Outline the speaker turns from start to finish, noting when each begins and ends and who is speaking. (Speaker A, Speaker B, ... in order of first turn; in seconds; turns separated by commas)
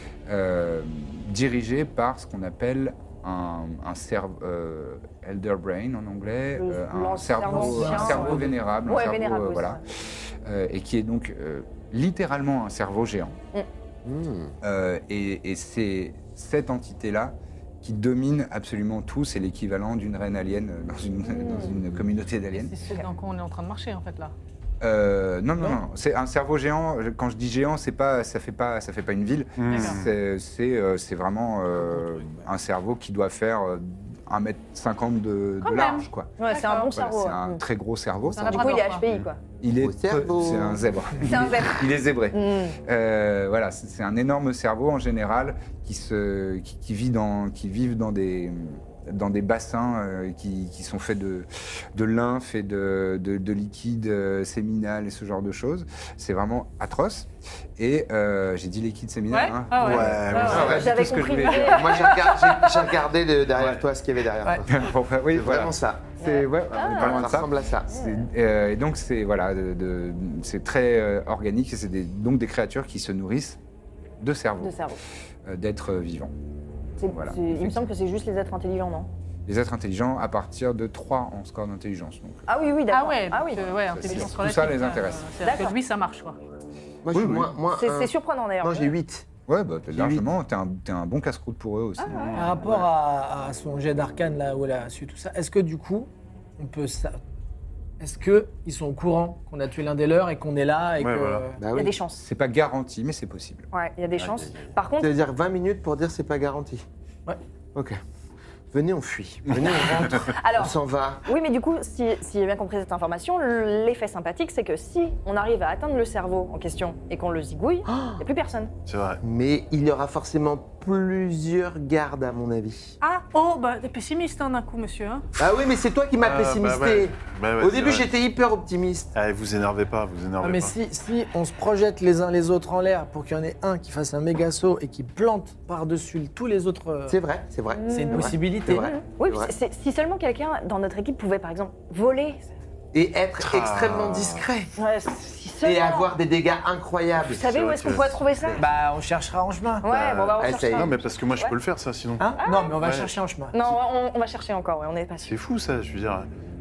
Speaker A: 0.2-13.4, Speaker B: 6.5-9.8, Speaker C: 7.4-8.5, Speaker D: 14.0-14.5, Speaker A: 14.6-22.7, Speaker B: 21.3-21.7, Speaker E: 22.5-24.3, Speaker A: 24.8-38.8, Speaker F: 29.6-30.1, Speaker E: 29.7-30.0, Speaker C: 32.0-32.4, Speaker E: 35.6-37.0, Speaker B: 36.4-37.6, Speaker E: 38.3-39.0, Speaker B: 38.4-39.4, Speaker A: 39.6-62.2, Speaker D: 39.7-40.9, Speaker B: 41.2-42.8, Speaker E: 59.3-60.8, Speaker F: 59.8-60.9, Speaker B: 60.4-62.1, Speaker E: 61.5-62.9, Speaker D: 61.6-64.7, Speaker F: 63.5-63.8, Speaker A: 64.7-73.6, Speaker D: 65.3-66.1, Speaker B: 66.2-67.3, Speaker D: 66.8-67.9, Speaker B: 67.9-68.3, Speaker A: 74.2-74.8, Speaker B: 74.6-75.0, Speaker A: 75.4-76.3, Speaker B: 77.0-79.1, Speaker A: 77.0-77.9, Speaker A: 79.5-82.5, Speaker B: 82.5-84.3, Speaker E: 82.9-86.4, Speaker A: 83.3-85.3, Speaker B: 85.4-85.8, Speaker D: 87.0-89.3, Speaker A: 87.1-87.5, Speaker B: 87.7-88.9, Speaker A: 89.5-92.7, Speaker D: 89.9-90.2, Speaker B: 92.0-92.7, Speaker F: 92.1-92.7, Speaker C: 92.3-97.2, Speaker C: 98.0-101.6, Speaker F: 101.0-101.5, Speaker D: 101.6-101.9, Speaker B: 101.7-102.2, Speaker A: 102.2-103.7, Speaker B: 103.7-105.1, Speaker F: 104.2-104.7, Speaker D: 105.0-106.8, Speaker D: 108.7-111.2, Speaker B: 110.1-118.7, Speaker D: 117.9-118.2, Speaker F: 118.8-119.2, Speaker D: 119.2-123.0, Speaker E: 123.0-125.2, Speaker D: 125.4-129.1, Speaker F: 126.2-128.1, Speaker F: 129.1-130.8, Speaker C: 130.4-137.2, Speaker D: 137.1-139.5, Speaker B: 137.7-142.4, Speaker C: 137.9-138.9, Speaker D: 142.9-144.7, Speaker F: 143.4-144.5, Speaker B: 144.8-146.1, Speaker D: 145.6-148.7, Speaker B: 147.2-148.6, Speaker F: 147.4-148.1, Speaker C: 148.6-149.9, Speaker B: 149.8-151.5, Speaker F: 150.3-153.1, Speaker D: 150.3-151.0, Speaker C: 152.2-153.6, Speaker B: 152.4-152.8, Speaker B: 153.5-155.3, Speaker F: 155.2-156.3